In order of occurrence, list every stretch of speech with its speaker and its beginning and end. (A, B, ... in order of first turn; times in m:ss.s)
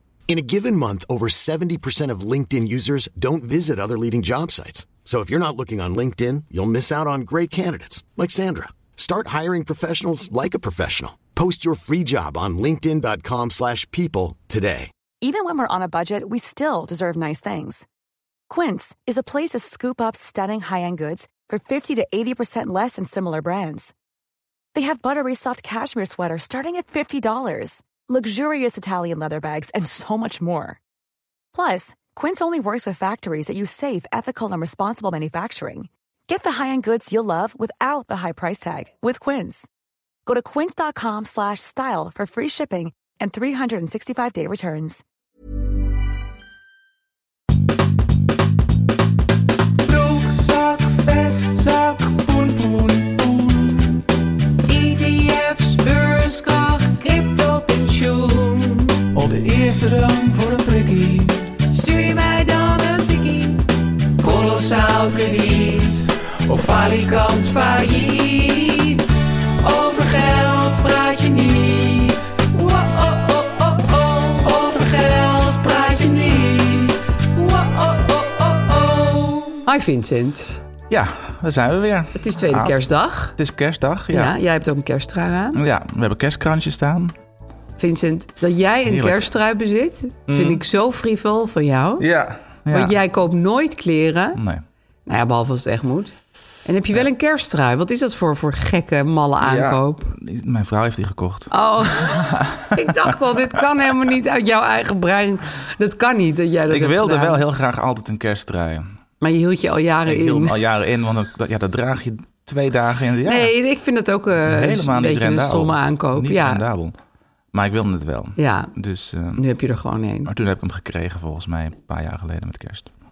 0:00.3-0:14.9 A
0:15.2-0:17.8 B
0:18.5-0:23.9 B
0:24.7-0:30.8 B
0:31.5-0:39.7 B
0:40.2-0:45.0 B
0:49.8-0:53.2 C
0:54.7-0:58.3 C
0:55.8-0:58.7 D
0:59.2-1:01.2 E
0:59.5-1:03.6 C
1:01.8-1:03.3 D
1:04.2-1:09.0 C
1:09.6-1:19.6 C
1:19.6-1:20.6 D
1:20.9-1:24.3 E
1:22.2-1:23.3 D
1:24.1-1:25.6 D
1:25.5-1:27.1 E
1:27.8-1:32.0 D
1:28.8-1:29.3 E
1:30.3-1:30.6 E
1:32.0-1:33.0 E
1:32.7-1:34.4 D
1:34.4-1:34.6 E
1:35.0-1:40.1 D
1:39.4-1:43.1 E
1:41.5-1:47.4 D
1:46.7-1:48.9 E
1:49.2-1:50.6 D
1:50.0-1:53.5 E
1:53.2-1:56.6 D
1:54.4-1:56.9 E
1:57.5-1:59.4 E
1:58.4-1:58.7 D
1:59.3-2:00.3 D
2:00.2-2:02.9 E